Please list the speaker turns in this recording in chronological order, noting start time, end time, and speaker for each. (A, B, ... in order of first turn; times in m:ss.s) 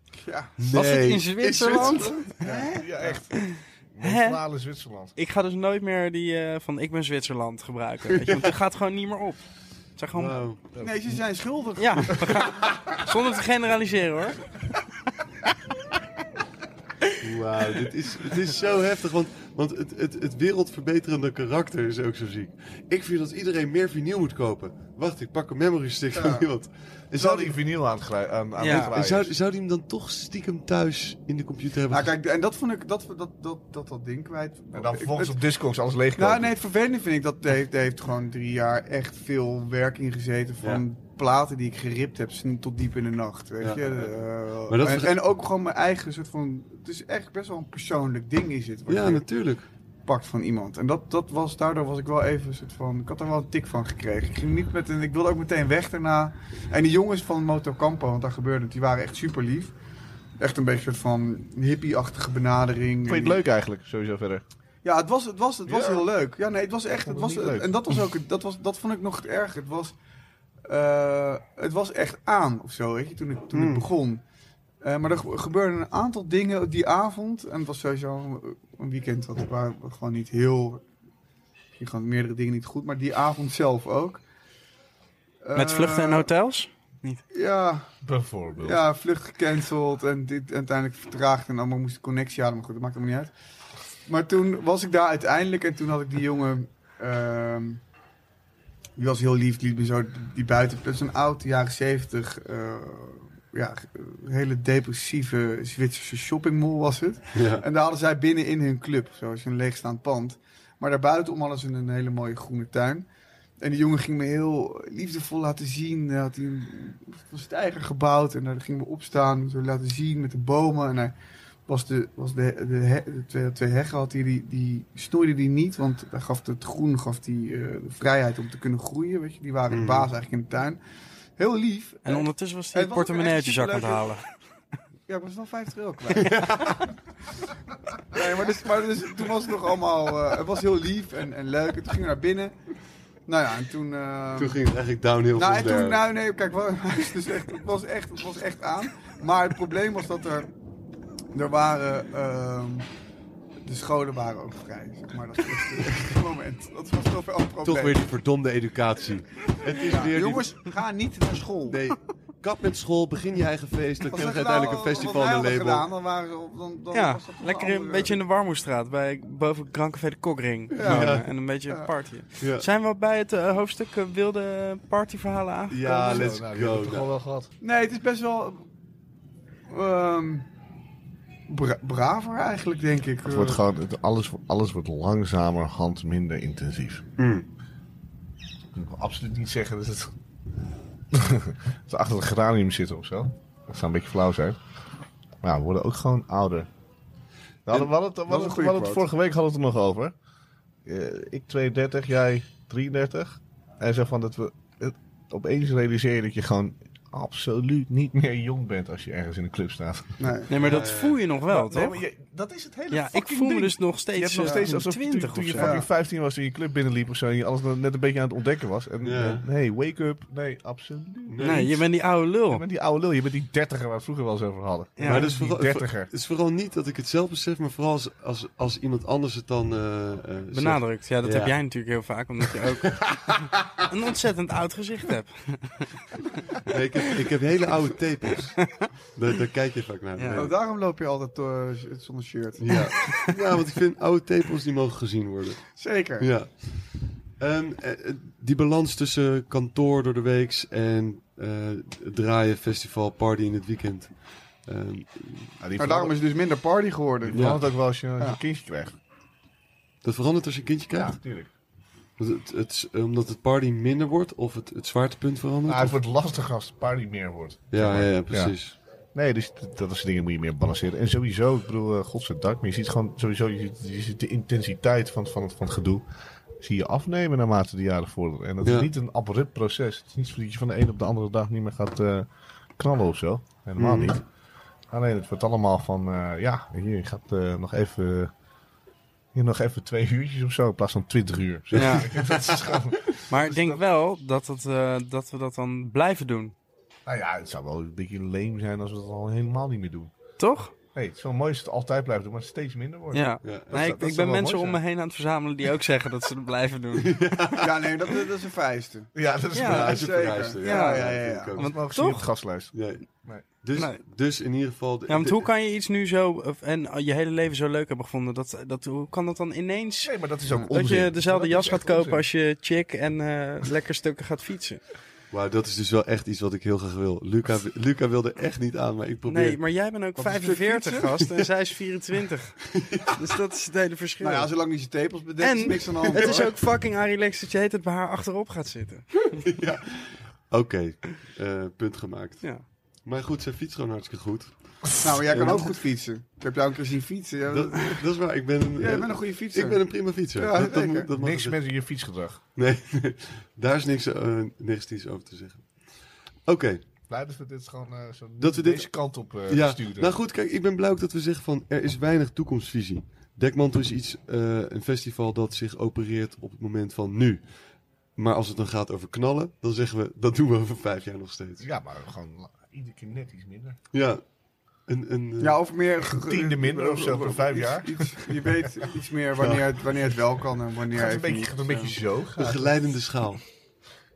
0:00.2-0:00.5 A
0:00.6-0:02.2 B
0:00.7-0:02.4 C
0:01.8-0:03.2 A
0:02.4-0:05.1 D
0:03.5-0:04.4 C
0:05.2-0:09.4 C
0:08.1-0:08.5 B
0:10.0-0:10.4 C
0:10.1-0:10.6 B
0:10.7-0:11.2 D
0:10.8-0:12.4 A
0:11.8-0:14.6 C
0:17.2-0:27.4 B
0:26.1-0:26.5 A
0:27.1-0:29.3 D
0:27.2-0:27.5 A
0:28.6-0:28.9 C
0:28.7-0:32.1 B
0:31.9-0:35.4 A
0:34.7-0:36.5 D
0:36.2-0:49.3 A
0:43.6-0:44.1 B
0:44.7-0:45.2 B
0:48.9-0:49.7 B
0:50.0-0:59.7 A
1:00.4-1:03.4 A
1:03.1-1:04.4 D
1:04.8-1:09.9 A
1:05.6-1:06.1 D
1:07.0-1:07.8 D
1:10.6-1:14.2 A
1:13.5-1:13.9 B
1:14.8-1:20.8 A
1:21.8-1:24.2 A
1:25.4-1:26.3 A
1:25.5-1:27.2 C
1:27.3-1:27.9 A
1:28.0-1:28.8 D
1:28.6-1:33.3 A
1:34.0-1:37.8 A
1:39.0-1:53.1 A
1:47.3-1:47.6 B
1:53.6-2:01.1 A
2:01.7-2:10.8 A
2:09.7-2:10.1 B
2:11.4-2:14.2 A
2:12.0-2:14.2 C
2:15.1-2:16.8 A
2:16.2-2:16.9 B
2:18.1-2:22.6 A
2:23.3-2:24.6 A
2:24.4-2:26.0 B
2:25.4-2:30.5 A
2:31.3-2:32.9 A
2:33.6-2:38.0 A
2:37.6-2:40.5 B
2:39.9-2:41.8 A
2:41.7-2:45.8 B
2:44.1-2:48.2 A
2:46.9-2:56.3 C
2:50.7-2:51.3 B
2:50.7-2:51.9 A
2:52.4-2:52.7 B
2:55.7-2:57.1 B
2:55.8-2:57.5 D
2:57.6-2:58.7 A
2:59.7-3:00.5 A
3:01.5-3:03.6 A
3:03.2-3:07.1 D
3:07.2-3:07.4 B
3:08.7-3:10.1 D
3:11.1-3:14.6 D
3:15.4-3:16.7 D
3:17.6-3:20.1 D
3:17.7-3:19.0 A
3:20.8-3:30.8 D
3:30.2-3:30.5 A
3:30.5-3:32.0 C
3:30.5-3:31.2 B
3:31.5-3:41.7 D
3:32.9-3:35.7 C
3:35.5-3:35.8 A
3:39.0-3:39.4 B
3:41.3-3:41.8 B
3:41.4-3:42.6 C
3:42.5-3:46.1 D
3:45.0-3:45.3 C
3:45.0-3:51.6 B
3:50.5-3:56.2 C
3:52.5-3:53.1 B
3:56.6-4:00.5 B
4:00.2-4:00.4 C
4:00.3-4:03.1 A
4:02.6-4:15.6 B
4:02.7-4:03.3 C
4:05.8-4:06.3 A
4:15.6-4:16.1 D
4:15.8-4:17.6 A
4:17.3-4:17.6 B
4:17.3-4:19.0 D
4:20.0-4:21.2 B
4:20.9-4:21.5 D
4:22.2-4:25.9 B
4:25.7-4:28.6 D
4:27.7-4:28.7 B
4:29.1-4:36.0 D
4:36.6-4:44.2 D
4:38.6-4:38.9 B
4:43.8-4:44.2 B
4:44.9-4:48.3 D
4:49.3-4:53.8 D
4:51.7-4:52.8 B
4:51.8-4:52.1 C
4:53.3-4:56.5 C
4:57.0-5:00.1 D
5:00.4-5:00.7 C
5:00.9-5:04.8 D
5:03.1-5:07.2 C
5:03.4-5:03.8 B
5:06.9-5:07.8 B
5:07.6-5:09.1 A
5:09.1-5:10.0 D
5:09.5-5:10.0 C
5:09.6-5:11.8 B
5:09.7-5:11.5 A
5:10.6-5:12.2 C
5:11.6-5:12.7 D
5:12.7-5:13.1 B
5:13.6-5:15.4 B
5:13.7-5:14.0 C
5:15.1-5:24.8 C
5:20.0-5:22.3 D
5:25.3-5:29.6 B
5:29.3-5:34.5 C
5:30.2-5:31.2 A
5:32.7-5:33.1 B
5:34.2-5:36.5 A
5:35.4-5:39.5 C
5:36.2-5:36.4 B
5:39.4-5:45.7 B
5:45.0-5:48.1 A
5:47.5-5:51.6 B
5:48.8-5:51.1 A
5:51.1-5:52.4 D
5:52.6-5:56.8 B
5:57.1-6:00.2 D
5:58.4-6:07.5 B
6:08.2-6:11.6 B
6:11.6-6:13.8 D
6:13.9-6:14.2 B
6:14.9-6:15.6 B
6:15.4-6:22.0 A
6:16.0-6:18.5 D
6:19.4-6:20.2 B
6:20.9-6:22.7 D
6:22.4-6:23.4 B